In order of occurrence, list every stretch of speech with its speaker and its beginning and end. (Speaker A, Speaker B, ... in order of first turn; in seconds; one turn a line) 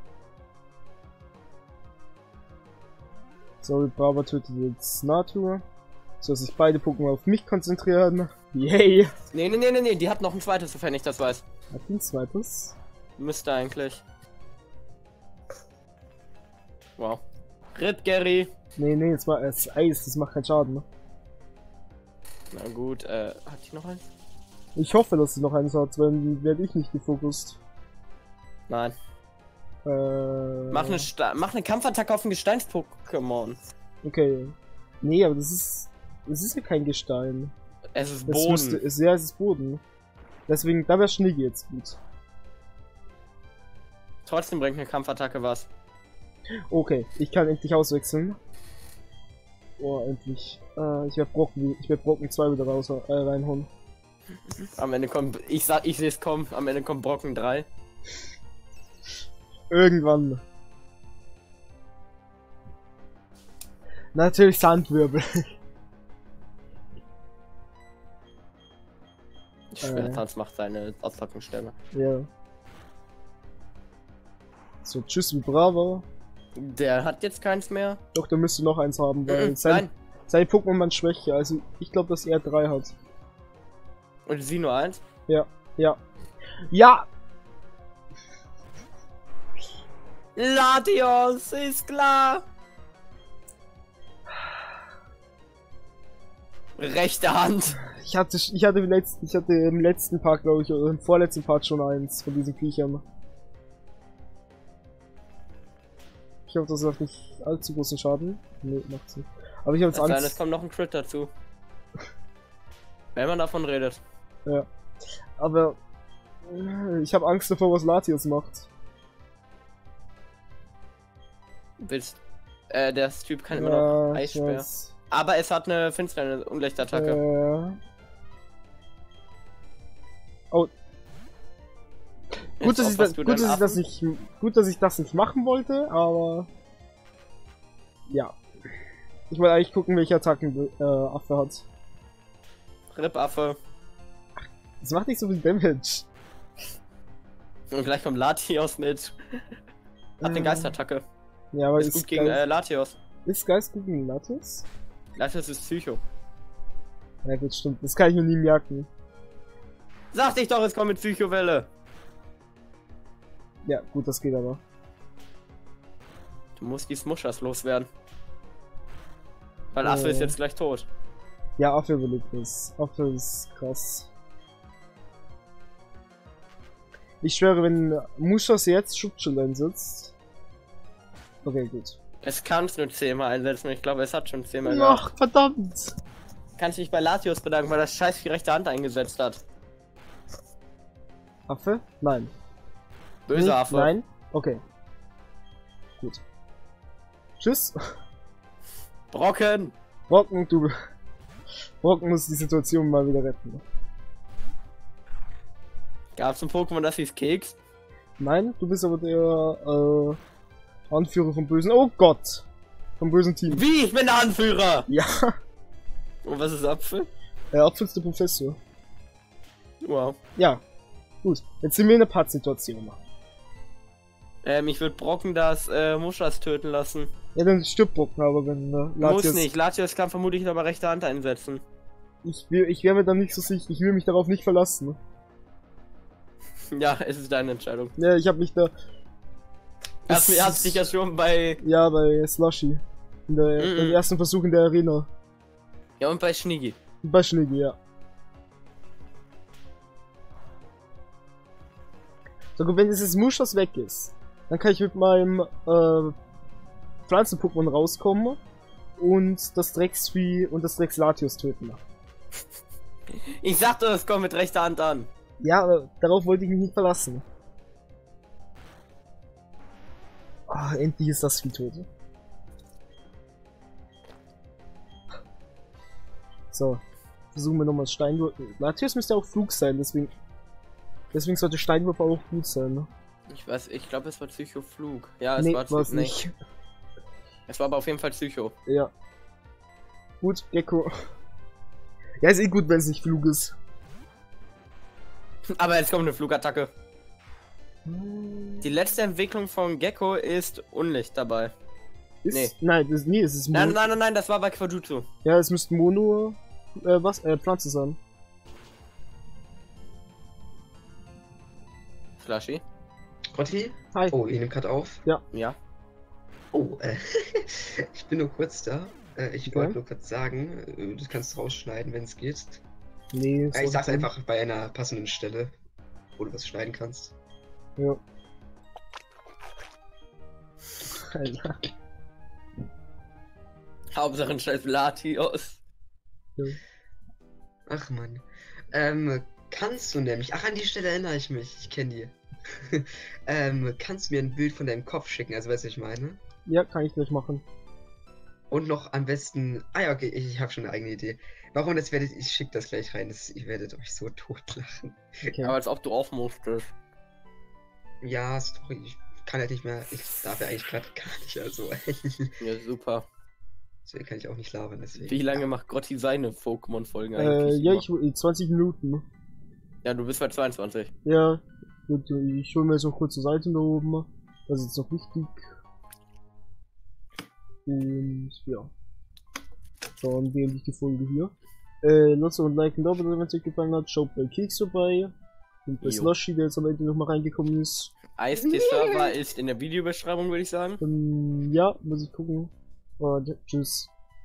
Speaker A: 3.6-5.6
Speaker A: 6.2-9.1
Speaker B: 9.3-11.4
Speaker A: 11.7-12.8
Speaker B: 13.2-14.0
Speaker B: 17.0-17.2
Speaker B: 17.7-18.5
Speaker A: 18.8-20.8
Speaker B: 22.5-24.1
Speaker A: 24.8-27.6
Speaker B: 28.7-28.9
Speaker A: 29.9-31.1
Speaker B: 30.7-33.6
Speaker A: 34.0-37.5
Speaker B: 37.9-38.8
Speaker A: 38.3-39.8
Speaker A: 40.5-42.0
Speaker B: 44.2-45.7
Speaker A: 46.7-48.4
Speaker A: 49.8-53.7
Speaker B: 54.8-57.7
Speaker A: 59.7-60.4
Speaker A: 64.1-65.5
Speaker B: 69.7-71.7
Speaker A: 69.8-70.2
Speaker A: 71.9-72.3
Speaker A: 74.8-76.0
Speaker B: 76.5-78.0
Speaker A: 78.1-82.9
Speaker B: 79.3-79.9
Speaker B: 84.2-85.0
Speaker A: 85.3-86.0
Speaker A: 86.7-87.1
Speaker B: 90.3-92.5
Speaker B: 96.8-97.8
Speaker A: 97.8-103.0
Speaker A: 106.5-110.4
Speaker B: 109.9-111.3
Speaker B: 113.1-114.0
Speaker A: 115.4-115.8
Speaker A: 116.4-118.7
Speaker B: 121.8-127.2
Speaker A: 123.5-124.9
Speaker A: 126.9-127.8
Speaker A: 132.6-136.5
Speaker B: 132.6-133.8
Speaker A: 138.1-138.4
Speaker A: 139.3-141.7
Speaker B: 142.9-143.6
Speaker A: 144.8-146.1
Speaker B: 147.7-149.5
Speaker A: 150.2-150.7
Speaker B: 150.2-151.0
Speaker A: 151.5-152.4
Speaker B: 151.8-153.0
Speaker A: 153.2-154.7
Speaker B: 155.1-156.0
Speaker A: 157.2-158.9
Speaker B: 160.1-161.7
Speaker A: 163.6-164.6
Speaker B: 166.6-167.9
Speaker B: 169.7-170.9
Speaker A: 169.8-170.3
Speaker A: 171.6-174.1
Speaker A: 177.2-180.1
Speaker A: 181.4-182.0
Speaker B: 182.2-185.0
Speaker A: 184.6-186.0
Speaker B: 186.6-189.4
Speaker A: 191.5-192.3
Speaker B: 193.3-193.9
Speaker A: 193.3-194.6
Speaker A: 197.4-197.8
Speaker B: 199.1-199.7
Speaker A: 200.1-200.8
Speaker A: 201.8-203.6
Speaker B: 206.1-207.6
Speaker A: 208.2-210.2
Speaker A: 210.9-212.4
Speaker A: 213.0-213.6
Speaker B: 213.5-214.9
Speaker A: 214.9-215.3
Speaker B: 216.2-217.1
Speaker A: 217.5-218.6
Speaker B: 219.8-220.2
Speaker A: 220.4-220.6
Speaker A: 221.2-223.0
Speaker B: 224.4-227.1
Speaker A: 227.3-229.5
Speaker B: 229.0-231.6
Speaker A: 232.2-235.0
Speaker B: 236.7-237.9
Speaker A: 238.0-238.7
Speaker B: 240.1-241.6
Speaker A: 240.1-240.8
Speaker A: 241.6-245.1
Speaker B: 243.6-244.0
Speaker B: 246.0-246.8
Speaker A: 247.0-247.8
Speaker A: 252.6-256.1
Speaker A: 257.1-258.4
Speaker A: 259.0-261.8
Speaker B: 263.3-265.1
Speaker A: 265.4-267.2
Speaker A: 270.5-271.9
Speaker A: 276.5-276.8
Speaker A: 277.3-280.1
Speaker A: 281.1-282.9
Speaker B: 283.3-286.1
Speaker A: 285.4-286.3
Speaker B: 287.5-288.5
Speaker A: 288.7-288.9
Speaker A: 290.2-291.0
Speaker A: 292.2-293.6
Speaker B: 295.5-296.7
Speaker A: 297.9-298.7
Speaker B: 298.6-301.5
Speaker A: 302.2-303.8
Speaker B: 303.5-305.1
Speaker A: 305.2-308.0
Speaker B: 312.2-312.6
Speaker C: 313.3-315.0
Speaker B: 315.3-315.6
Speaker C: 316.5-322.6
Speaker A: 319.5-319.8
Speaker A: 323.1-324.1
Speaker C: 323.5-325.6
Speaker C: 326.2-327.1
Speaker A: 331.0-331.6
Speaker B: 333.9-335.6
Speaker C: 337.7-346.2
Speaker A: 346.5-347.4
Speaker C: 348.5-355.0
Speaker A: 355.3-355.6
Speaker B: 355.4-356.7
Speaker C: 358.0-362.4
Speaker B: 362.4-363.1
Speaker C: 363.9-365.4
Speaker B: 365.1-367.8
Speaker A: 367.2-369.0
Speaker B: 369.8-370.9
Speaker A: 371.0-375.5
Speaker A: 377.6-378.7
Speaker A: 380.0-385.1
Speaker A: 385.6-387.9
Speaker B: 385.8-386.1
Speaker B: 388.2-390.8
Speaker C: 388.3-389.1
Speaker A: 390.8-393.9